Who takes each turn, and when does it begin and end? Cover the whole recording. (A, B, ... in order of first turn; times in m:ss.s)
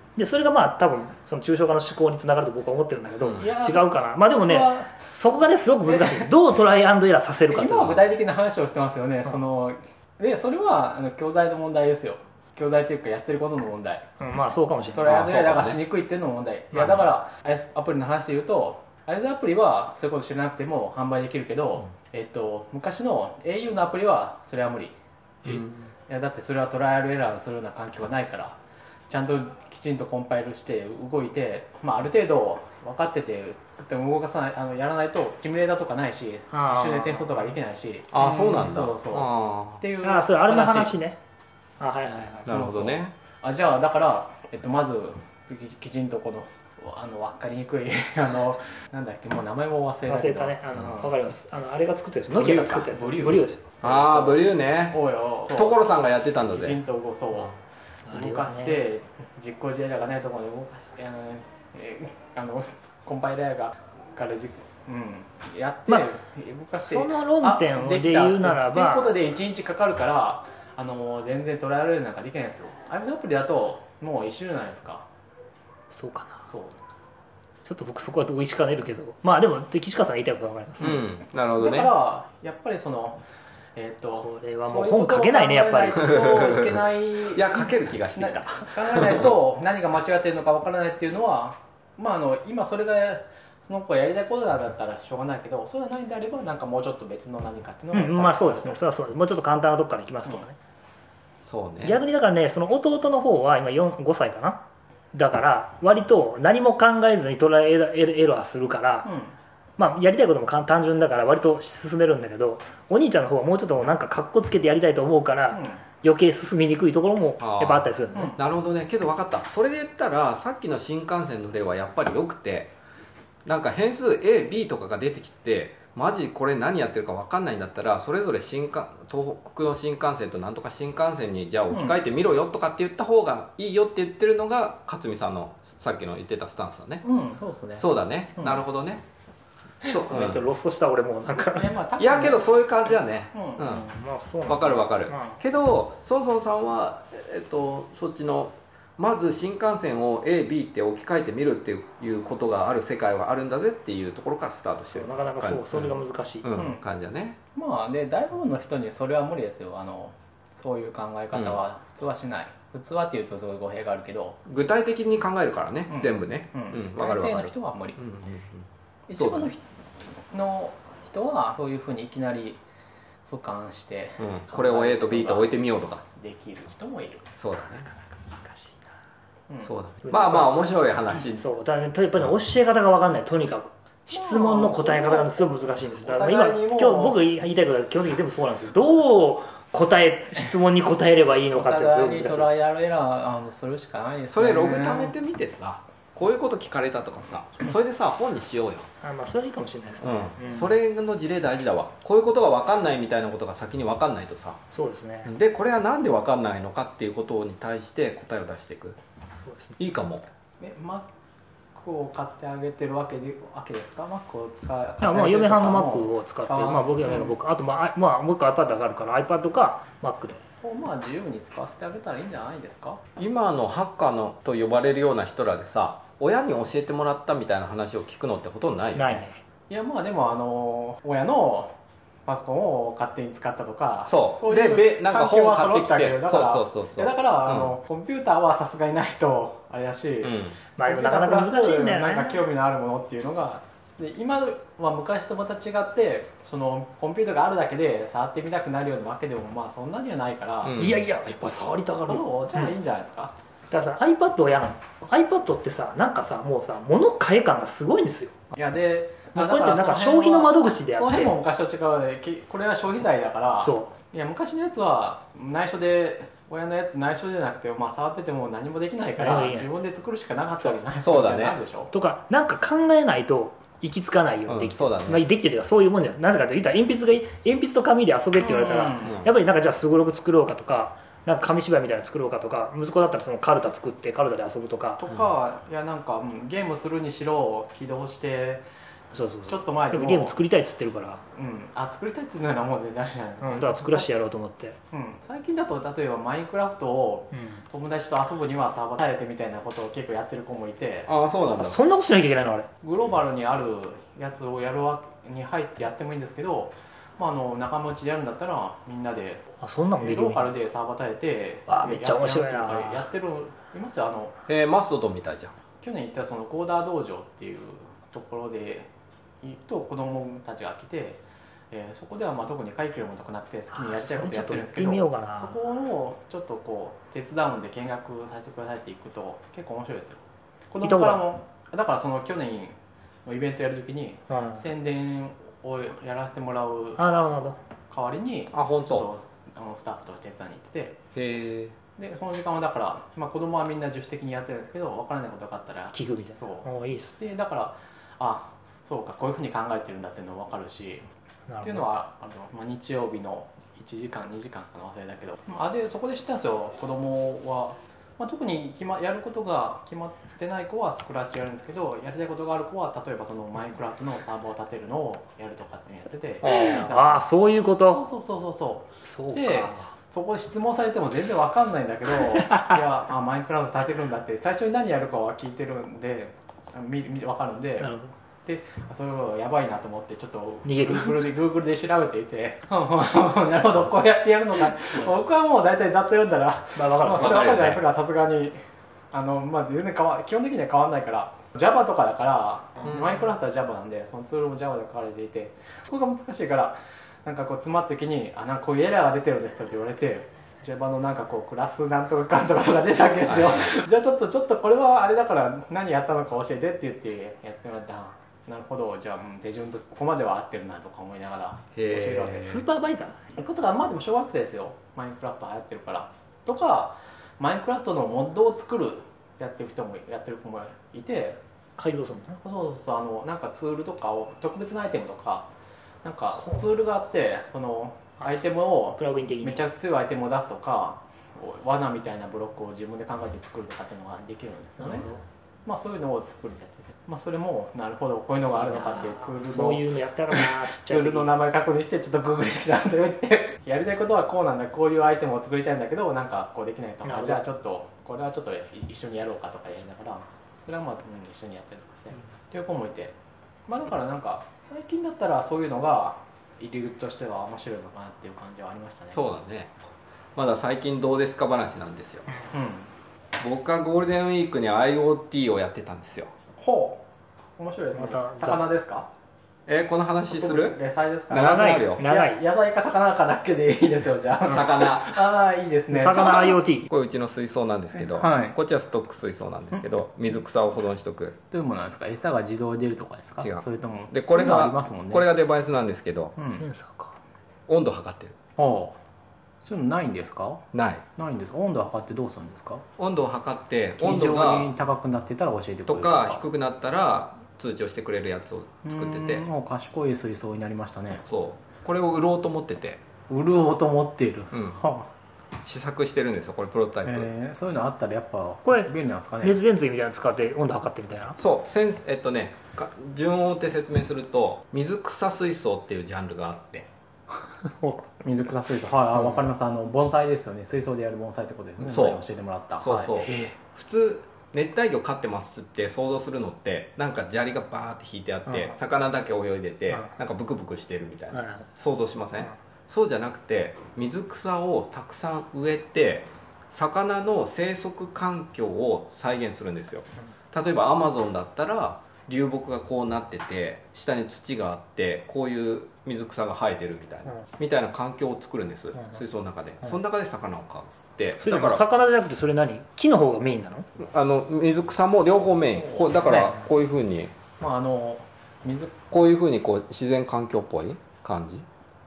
0:00.2-0:08.0 A
0:03.4-0:04.9 B
0:05.9-0:06.3 B
0:07.5-0:14.0 B
0:14.2-0:15.2 A
0:14.9-0:25.0 B
0:15.0-0:15.8 C
0:25.5-0:25.8 C
0:26.1-0:28.6 B
0:29.1-0:41.0 B
0:36.5-0:37.5 A
0:38.1-0:39.8 C
0:40.0-0:41.2 A
0:41.8-0:42.5 A
0:42.5-0:43.1 C
0:42.5-0:51.1 B
0:50.1-0:53.6 A
0:52.3-0:55.8 B
0:53.8-0:55.0 C
0:55.5-0:56.8 C
0:56.5-0:57.6 B
0:58.1-0:58.8 A
0:58.1-1:15.0 B
1:06.8-1:09.1 A
1:15.9-1:16.5 A
1:16.5-1:16.8 B
1:17.6-1:21.0 A
1:20.8-1:21.9 C
1:21.6-1:23.2 B
1:23.8-1:38.8 B
1:24.2-1:26.2 A
1:26.0-1:29.3 C
1:37.9-1:40.6 A
1:41.4-1:42.0 C
1:41.8-1:44.6 A
1:45.1-1:49.1 A
1:49.0-1:49.4 B
1:49.8-1:58.4 A
1:55.5-1:55.8 B
1:57.4-2:02.7 C
2:03.4-2:17.0 C
2:17.0-2:18.6 B
2:17.8-2:19.0 C
2:19.9-2:20.4 C
2:19.9-2:21.7 A
2:21.6-2:22.5 B
2:22.0-2:23.8 C
2:23.3-2:23.8 B
2:23.7-2:25.4 A
2:24.5-2:37.4 C
2:34.9-2:36.5 A
2:36.6-2:36.8 B
2:37.6-2:44.4 B
2:44.5-2:49.5 C
2:45.9-2:48.0 B
2:49.1-2:49.6 B
2:50.2-2:52.6 B
2:53.3-2:55.6 B
2:54.2-2:56.0 C
2:56.2-2:57.3 B
2:57.4-2:57.9 C
2:58.1-2:58.8 A
2:59.6-3:01.4 C
3:00.0-3:00.7 A
3:01.4-3:12.5 A
3:04.1-3:07.2 B
3:11.5-3:15.1 B
3:14.3-3:18.9 C
3:19.0-3:20.7 A
3:20.0-3:24.6 C
3:24.7-3:25.3 A
3:25.2-3:29.0 C
3:29.5-3:29.8 A
3:29.8-3:30.3 C
3:30.6-3:31.1 B
3:31.8-3:37.3 B
3:35.0-3:40.4 A
3:40.6-3:43.0 B
3:43.2-3:49.2 C
3:49.0-3:49.4 A
3:49.7-3:51.7 B
3:52.3-4:10.8 B
3:54.0-3:57.8 C
4:00.2-4:00.6 C
4:00.8-4:02.4 A
4:10.6-4:10.9 C
4:10.7-4:12.7 A
4:12.1-4:13.3 B
4:13.7-4:18.3 A
4:18.6-4:31.9 B
4:19.4-4:21.3 A
4:23.6-4:23.9 A
4:29.2-4:29.7 A
4:31.0-4:31.6 C
4:31.9-4:45.0 A
4:34.5-4:35.3 C
4:38.4-4:39.2 B
4:39.0-4:39.3 C
4:45.0-4:48.6 B
4:49.1-4:51.2 A
4:49.5-4:50.4 B
4:51.3-4:54.1 B
4:53.4-4:54.8 A
4:54.9-5:01.1 B
4:57.3-4:57.6 A
5:01.1-5:01.8 C
5:01.6-5:02.7 A
5:02.8-5:14.4 B
5:09.6-5:10.5 A
5:11.7-5:13.1 A
5:14.5-5:15.6 C
5:15.8-5:18.9 B
5:19.4-5:32.8 B
5:23.7-5:25.6 A
5:30.8-5:31.2 A
5:33.3-5:37.0 B
5:34.3-5:34.6 A
5:37.0-5:37.6 A
5:37.9-5:41.0 B
5:38.5-5:39.1 C
5:41.2-5:41.8 C
5:42.0-5:51.1 B
5:45.9-5:47.2 A
5:51.5-5:51.8 A
5:51.6-6:17.9 B
6:06.4-6:08.0 A
6:09.0-6:09.9 A
6:12.4-6:12.8 A
6:17.8-6:18.1 A
6:18.5-6:28.6 B
6:20.7-6:21.3 A
6:26.8-6:27.5 A
6:27.2-6:27.8 C
6:29.1-6:52.6 B
6:51.8-6:52.6 C
6:52.4-6:53.2 A
6:53.3-7:01.4 B
7:01.8-7:02.4 A
7:02.4-7:05.5 B
7:06.0-7:15.1 B
7:08.2-7:09.6 A
7:14.8-7:15.2 A
7:15.7-7:33.1 B
7:18.5-7:21.3 A
7:27.0-7:27.4 A
7:33.7-7:39.2 B
7:39.1-7:39.8 C
7:40.4-7:42.3 C
7:42.5-7:42.9 B
7:43.4-7:46.3 C
7:46.6-7:47.0 B
7:47.6-7:49.1 B
7:48.0-7:48.6 A
7:49.7-7:50.8 C
7:50.4-7:56.6 B
7:51.3-7:52.0 C
7:51.3-7:52.4 A
7:54.4-7:55.2 C
7:55.9-7:56.9 A
7:56.9-8:01.4 C
7:58.0-7:58.6 B
8:01.5-8:05.3 B
8:03.4-8:06.4 C
8:06.4-8:06.6 B
8:06.5-8:07.2 A
8:07.7-8:08.4 C
8:08.6-8:09.0 B
8:09.6-8:12.8 B
8:10.7-8:11.0 C
8:13.0-8:14.7 C
8:14.0-8:16.4 B
8:15.9-8:19.5 C
8:18.8-8:21.2 B
8:21.3-8:23.0 C
8:23.3-8:25.1 B
8:24.5-8:24.8 C
8:25.6-8:27.3 C
8:27.0-8:29.6 B
8:29.4-8:31.4 A
8:31.4-8:36.9 C
8:38.2-8:43.5 B
8:41.8-8:42.2 C
8:42.8-9:11.8 C
8:51.3-8:51.7 A
9:11.4-9:13.9 A
9:14.0-9:17.4 C
9:15.8-9:16.3 B
9:16.3-9:16.6 A
9:17.6-9:19.0 B
9:19.1-9:21.7 C